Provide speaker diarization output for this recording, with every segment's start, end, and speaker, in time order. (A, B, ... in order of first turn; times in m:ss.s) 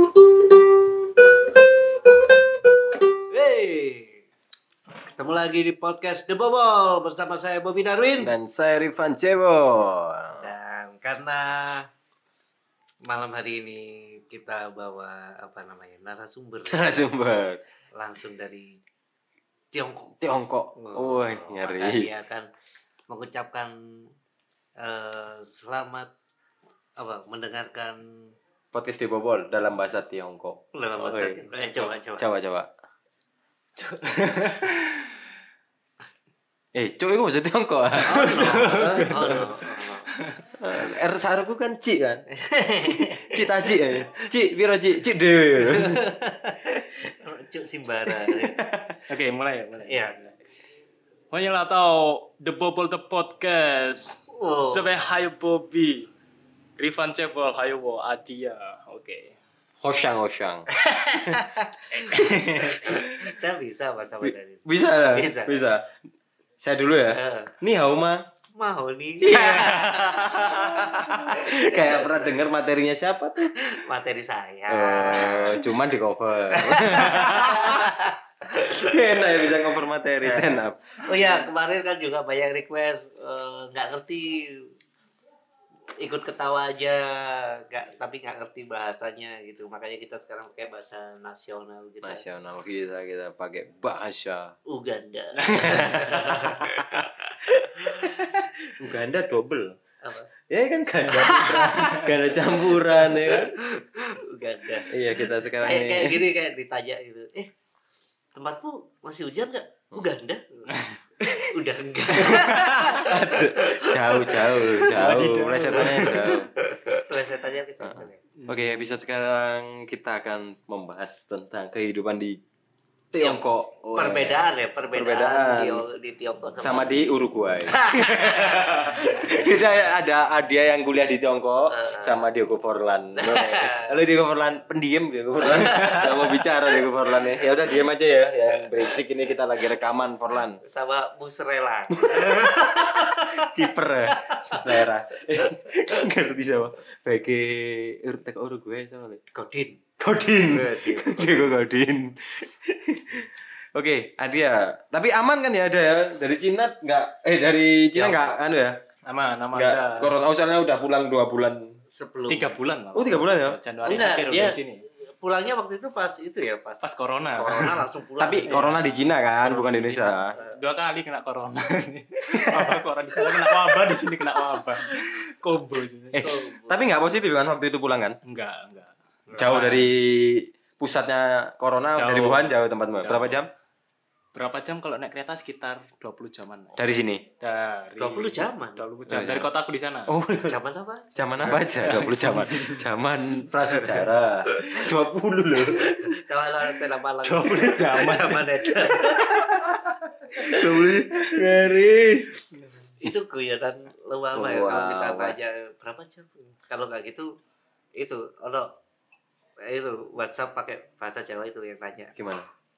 0:03.3-0:04.2 A
0:05.2-0:08.3 A
0:08.2-0:10.5 B
0:10.4-0:11.9 A
0:13.0-0:17.0 A
0:16.7-0:17.6 B
0:17.9-0:18.8 A
0:19.7-0:20.2 A
0:20.2-0:22.1 B
0:20.8-0:22.5 A
0:23.1-0:24.1 A
0:24.8-0:26.1 A
0:27.0-0:28.3 A
0:28.7-0:32.7 B
0:30.7-0:32.3 A
0:33.8-0:34.8 C
0:36.7-0:39.6 B
0:38.0-0:40.1 A
0:38.6-0:39.3 C
0:40.1-0:40.4 C
0:40.6-0:42.2 B
0:42.3-0:44.2 A
0:42.9-0:46.0 B
0:45.6-0:48.6 A
0:48.1-0:49.0 B
0:49.1-0:50.3 C
0:49.8-0:50.1 A
0:51.3-0:56.1 C
0:54.3-0:55.0 A
0:56.8-0:59.4 C
0:59.8-1:00.7 B
1:00.7-1:05.6 A
1:02.0-1:03.3 B
1:04.2-1:05.9 B
1:06.6-1:08.2 B
1:07.1-1:07.5 A
1:08.6-1:12.3 A
1:09.2-1:13.5 B
1:13.6-1:15.7 A
1:14.7-1:17.9 B
1:16.5-1:19.6 A
1:18.5-1:20.8 B
1:21.0-1:24.7 A
1:26.0-1:32.2 A
1:32.0-1:34.6 B
1:34.7-1:37.1 A
1:35.4-1:39.8 B
1:40.0-1:40.3 A
1:40.5-1:43.5 B
1:41.1-1:44.9 A
1:44.9-1:46.2 B
1:45.5-1:47.5 A
1:48.3-1:50.7 A
1:50.7-1:51.0 C
1:51.2-1:51.5 B
1:51.5-1:55.0 A
1:52.1-1:56.5 B
1:52.5-1:53.0 C
1:54.8-1:56.3 C
1:55.7-1:58.2 A
1:57.8-2:02.4 B
1:58.4-1:58.8 C
2:03.1-2:05.8 B
2:03.2-2:07.0 A
2:06.6-2:20.6 B
2:07.7-2:09.5 A
2:11.7-2:12.2 A
2:13.2-2:14.0 A
2:15.4-2:16.5 A
2:18.5-2:19.0 A
2:20.6-2:24.8 A
2:21.9-2:29.2 B
2:29.3-2:29.8 A
2:30.0-2:38.8 B
2:30.4-2:31.5 A
2:37.9-2:38.4 A
2:39.0-2:40.1 C
2:39.5-2:41.7 B
2:41.9-2:42.6 A
2:42.3-2:44.8 C
2:42.9-2:43.6 B
2:43.8-2:48.6 A
2:46.8-2:47.8 C
2:48.2-2:50.3 B
2:48.5-2:56.3 C
2:52.3-2:54.2 B
2:56.1-2:58.2 B
2:56.2-2:56.8 A
2:58.2-2:59.9 C
2:59.3-3:03.5 B
3:01.9-3:03.4 C
3:04.3-3:06.8 C
3:06.8-3:07.2 B
3:07.4-3:10.1 C
3:08.0-3:08.9 A
3:09.1-3:09.5 B
3:10.1-3:10.6 B
3:10.5-3:11.2 A
3:11.1-3:16.2 B
3:11.6-3:12.8 C
3:13.7-3:14.0 A
3:14.5-3:14.9 A
3:15.8-3:19.7 A
3:17.3-3:18.4 C
3:17.3-3:22.4 B
3:20.3-3:21.4 A
3:23.0-3:27.3 A
3:24.3-3:25.5 B
3:28.0-3:28.7 A
3:29.6-3:32.1 A
3:32.2-3:32.5 B